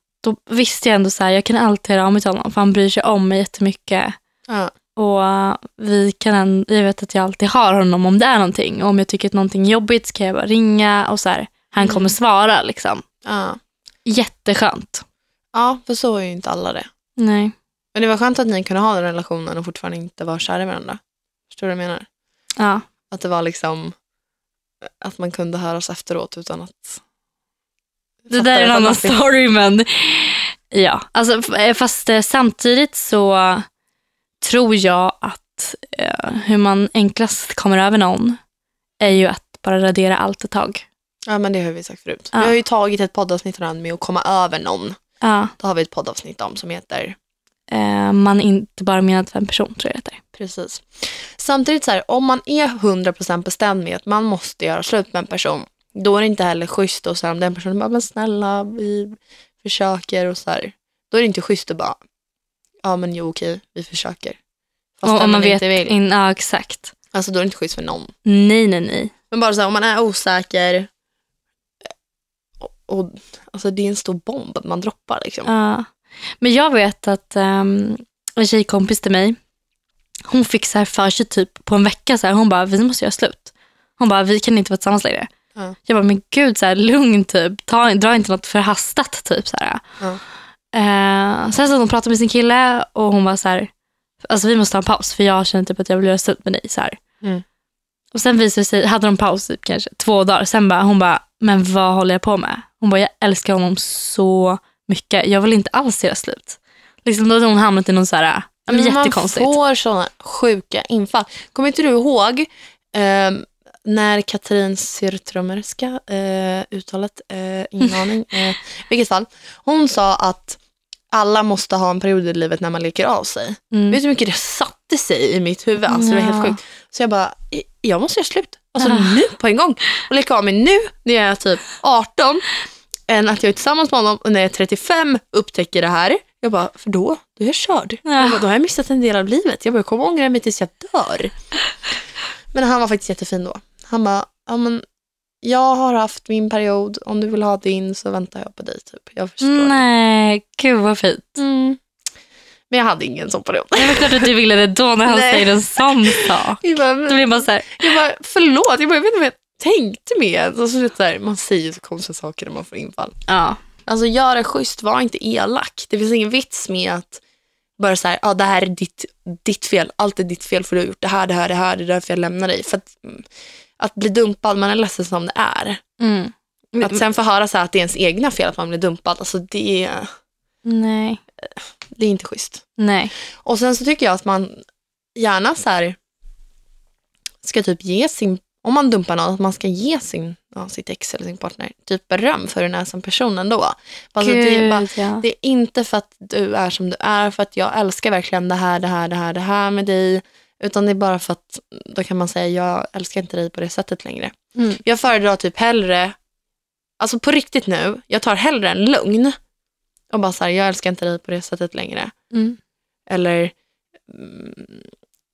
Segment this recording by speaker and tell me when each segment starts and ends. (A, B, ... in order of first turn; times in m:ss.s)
0:00.2-0:04.2 A
0:04.5-0:04.7 B
0:05.0-0:13.0 A
0:11.8-0:12.1 B
0:13.2-0:13.6 B
0:14.0-0:15.0 A
0:15.5-0:16.9 B
0:17.2-0:17.5 A
0:17.9-0:22.0 B
0:22.6-0:22.8 A
0:23.1-0:23.9 B
0:25.0-0:27.0 B
0:28.2-0:29.2 B
0:28.3-0:33.6 A
0:34.4-0:38.4 A
0:39.0-0:40.8 A
0:41.3-0:45.0 B
0:45.2-0:45.5 A
0:45.6-0:47.2 B
0:47.7-0:50.2 A
0:50.3-1:02.0 B
1:02.8-1:04.4 B
1:05.0-1:05.9 B
1:05.0-1:06.9 A
1:07.1-1:08.1 B
1:08.2-1:09.1 A
1:09.3-1:10.9 B
1:12.6-1:15.5 B
1:15.4-1:15.9 A
1:16.4-1:19.4 A
1:20.3-1:25.3 A
1:25.8-1:29.8 A
1:30.7-1:33.7 A
1:34.2-1:37.0 A
1:38.1-1:49.6 A
1:48.7-2:00.6 B
2:01.1-2:12.5 B
2:03.7-2:04.0 A
2:05.9-2:06.6 A
2:08.8-2:09.2 A
2:13.1-2:21.3 B
2:18.0-2:18.4 A
2:22.5-2:24.8 B
2:25.4-2:29.8 B
2:29.4-2:31.4 A
2:31.4-2:31.8 B
2:32.7-2:34.3 B
2:33.8-2:37.8 A
2:35.1-2:43.2 B
2:43.3-2:43.6 A
2:43.9-2:47.2 B
2:47.8-2:53.2 B
2:53.8-2:55.8 B
2:56.0-2:57.0 A
2:56.8-3:00.1 B
3:00.6-3:01.2 A
3:01.9-3:02.6 B
3:02.8-3:03.1 A
3:03.4-3:04.6 B
3:05.2-3:06.0 B
3:07.4-3:26.2 B
3:14.2-3:15.2 A
3:24.5-3:24.8 A
3:27.0-3:29.4 B
3:30.1-3:32.1 B
3:32.3-3:32.6 A
3:33.1-3:33.5 B
3:34.1-3:34.9 B